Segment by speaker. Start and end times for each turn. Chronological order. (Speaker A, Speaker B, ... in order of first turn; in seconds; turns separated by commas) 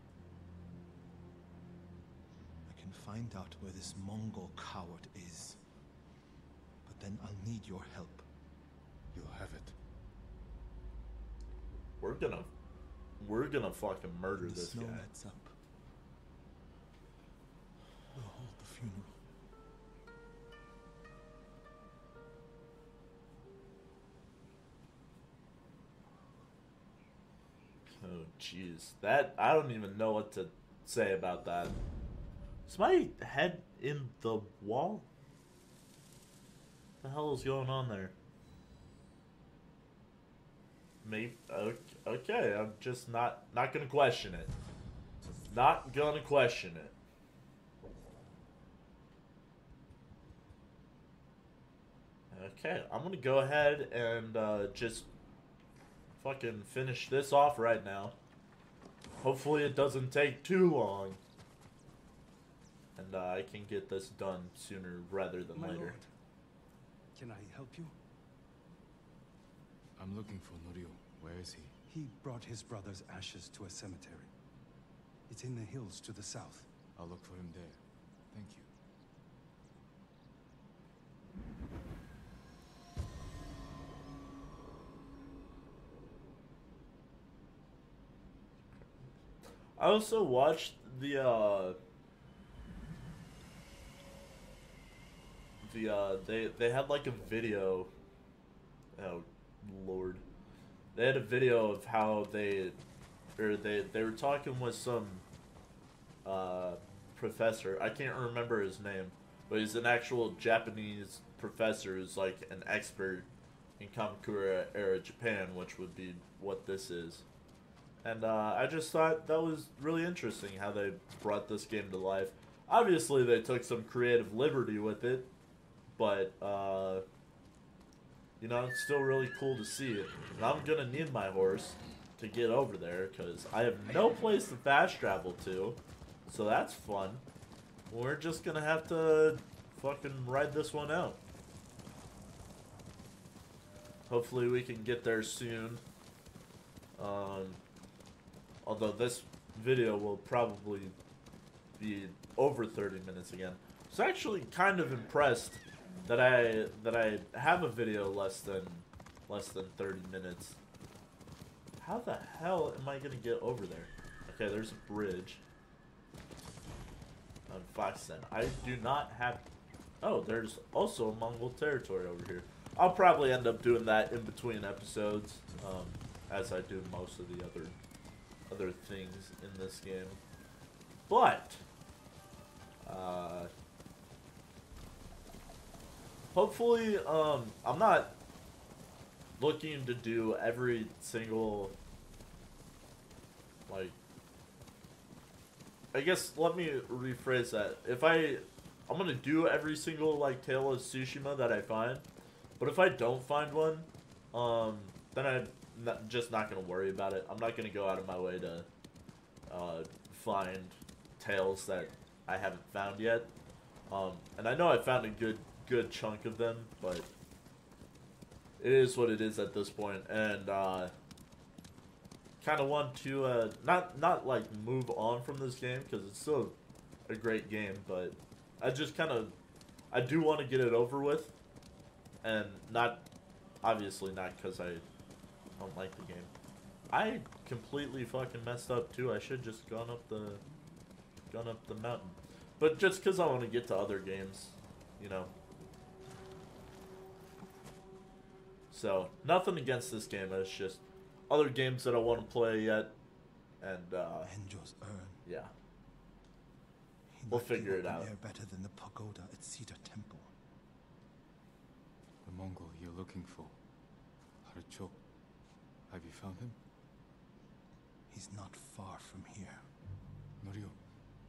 Speaker A: 2.6-5.6, Speaker A: 6.8-8.3, Speaker B: 9.1-9.8, Speaker C: 12.0-12.5, Speaker C: 13.2-15.0, Speaker A: 14.4-15.5, Speaker A: 18.1-19.1, Speaker C: 28.0-31.8, Speaker C: 32.7-35.0, Speaker C: 37.0-38.1, Speaker C: 41.0-44.5, Speaker C: 45.5-46.9, Speaker C: 52.3-55.1, Speaker C: 56.2-58.1, Speaker C: 59.2-61.2, Speaker C: 63.0-66.0, Speaker D: 65.5-66.0, Speaker D: 67.1-67.9, Speaker B: 70.0-71.7, Speaker D: 71.9-74.3, Speaker D: 75.3-76.7, Speaker B: 77.0-78.7, Speaker C: 89.8-91.8, Speaker C: 95.6-97.9, Speaker C: 99.0-100.2, Speaker C: 100.9-102.8, Speaker C: 103.4-105.2, Speaker C: 106.2-113.3, Speaker C: 113.8-117.2, Speaker C: 118.0-125.3, Speaker C: 126.0-127.0, Speaker C: 128.4-137.2, Speaker C: 137.9-141.2, Speaker C: 144.1-145.8, Speaker C: 147.0-147.6, Speaker C: 148.6-150.9, Speaker C: 151.8-160.6, Speaker C: 161.8-165.4, Speaker C: 167.5-169.4, Speaker C: 170.0-177.8, Speaker C: 178.5-180.2, Speaker C: 181.1-181.6, Speaker C: 182.8-183.5, Speaker C: 186.3-188.2, Speaker C: 189.4-191.7, Speaker C: 193.7-193.9, Speaker C: 195.9-202.0, Speaker C: 202.6-208.7, Speaker C: 209.5-213.3, Speaker C: 213.9-217.1, Speaker C: 218.6-220.9, Speaker C: 222.4-226.6, Speaker C: 227.1-229.3, Speaker C: 229.9-231.3, Speaker C: 232.2-233.0, Speaker C: 233.6-234.8, Speaker C: 235.6-236.3, Speaker C: 236.9-240.4, Speaker C: 241.3-245.3, Speaker C: 248.7-252.9, Speaker C: 253.6-254.3, Speaker A: 254.2-255.2, Speaker C: 255.2-255.5, Speaker A: 257.1-260.3, Speaker C: 257.3-258.1, Speaker B: 262.2-263.6, Speaker B: 264.4-265.0, Speaker B: 265.9-266.6, Speaker A: 268.1-269.6, Speaker B: 270.4-270.8